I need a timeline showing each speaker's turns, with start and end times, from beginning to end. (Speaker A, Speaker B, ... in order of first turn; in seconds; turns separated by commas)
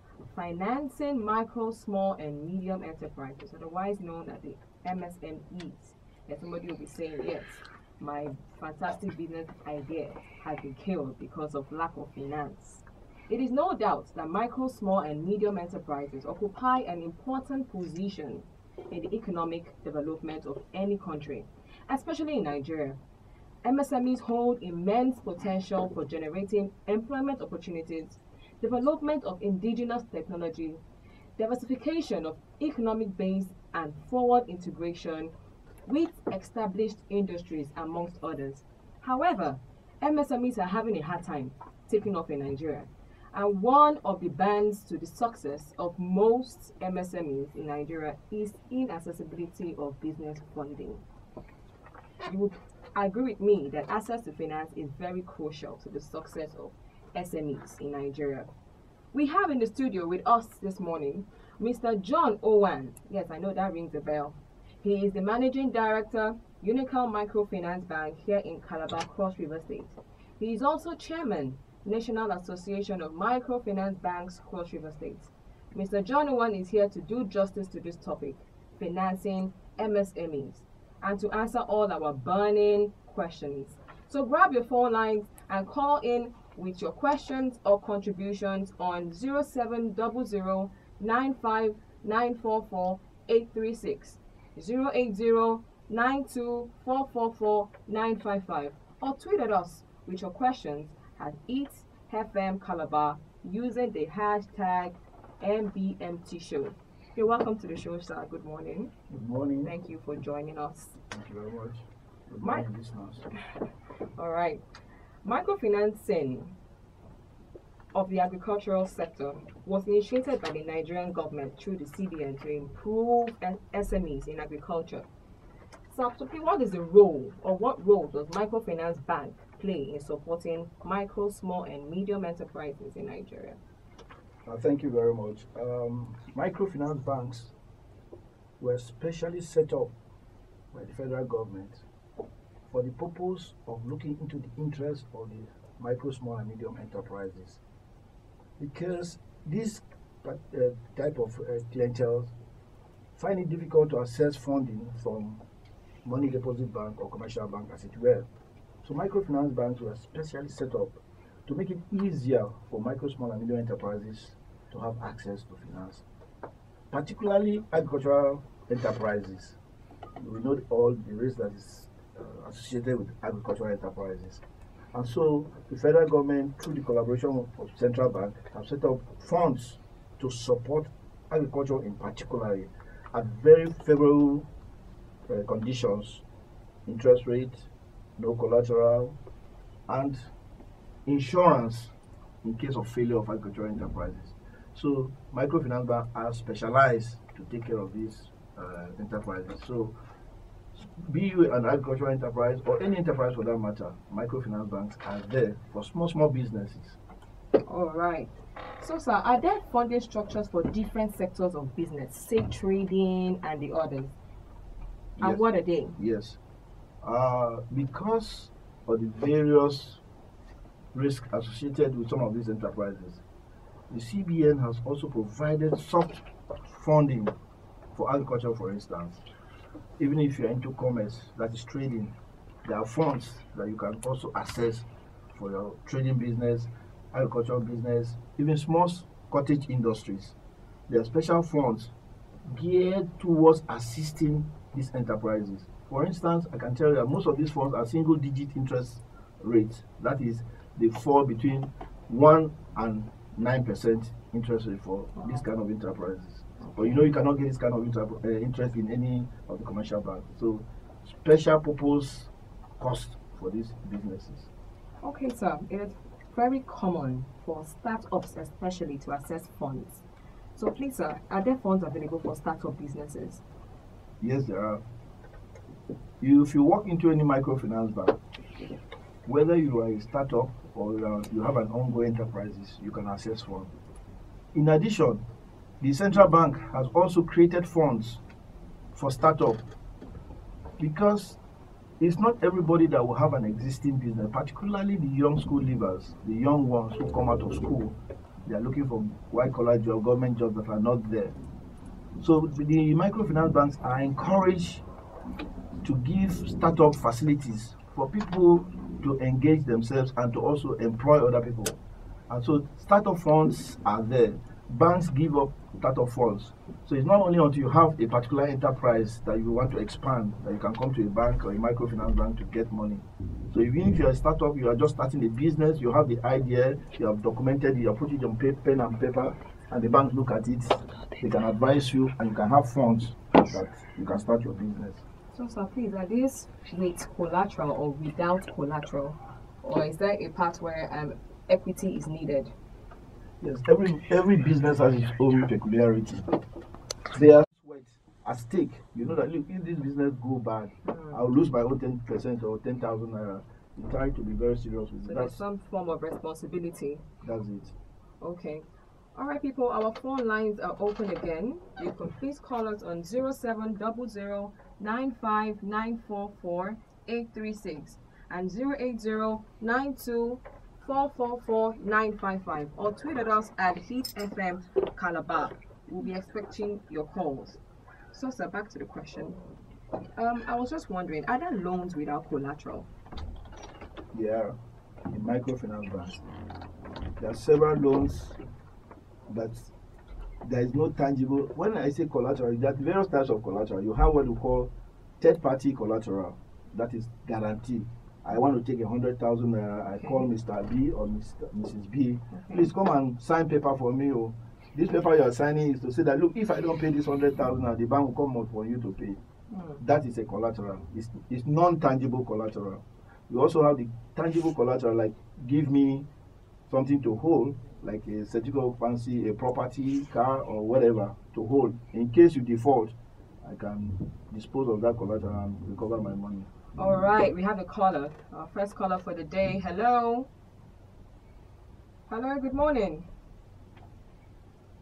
Speaker A: 0.2-23.0, Speaker A: 23.6-30.8, Speaker A: 31.4-35.3, Speaker A: 35.9-51.0, Speaker A: 52.2-58.5, Speaker A: 59.1-108.9, Speaker B: 109.1-109.7, Speaker A: 109.6-111.0, Speaker B: 111.1-113.3, Speaker A: 114.2-114.6, Speaker A: 115.2-116.5, Speaker A: 117.9-125.0, Speaker A: 125.9-133.6, Speaker B: 134.4-137.5, Speaker B: 138.6-139.9, Speaker B: 140.7-141.8, Speaker B: 142.7-147.6, Speaker B: 148.6-152.3, Speaker B: 153.1-155.4, Speaker B: 156.0-158.3, Speaker B: 158.8-166.1, Speaker B: 166.9-169.6, Speaker B: 170.2-184.5, Speaker B: 185.3-186.2, Speaker B: 186.8-189.2, Speaker B: 189.9-190.3, Speaker B: 191.1-199.9, Speaker B: 200.7-207.0, Speaker A: 207.6-214.1, Speaker B: 215.2-215.4, Speaker A: 215.2-216.0, Speaker B: 216.0-216.4, Speaker B: 217.0-220.0, Speaker B: 220.9-223.2, Speaker B: 223.9-227.3, Speaker B: 227.9-229.2, Speaker B: 230.0-240.4, Speaker B: 240.9-241.9, Speaker B: 242.5-264.5, Speaker A: 256.6-257.0, Speaker A: 265.0-270.0, Speaker A: 270.6-273.4, Speaker B: 274.2-274.8, Speaker B: 276.2-278.2, Speaker B: 279.2-283.7, Speaker B: 284.5-285.2, Speaker B: 285.8-288.2, Speaker B: 288.9-289.6, Speaker B: 290.8-291.4, Speaker B: 292.0-301.4, Speaker B: 302.2-304.8, Speaker B: 305.8-335.0, Speaker A: 335.3-342.5, Speaker B: 343.4-346.4, Speaker B: 347.1-355.4, Speaker A: 350.8-351.2, Speaker A: 355.0-357.0, Speaker B: 357.2-357.7, Speaker A: 358.2-377.6, Speaker A: 378.1-379.4, Speaker A: 380.1-382.9, Speaker B: 384.1-384.6, Speaker B: 385.1-386.2, Speaker B: 387.2-388.4, Speaker B: 389.3-389.7, Speaker B: 390.4-409.2, Speaker A: 402.3-402.7, Speaker A: 409.5-409.8, Speaker B: 409.8-416.1, Speaker B: 416.7-426.5, Speaker A: 426.8-430.3, Speaker A: 432.1-433.1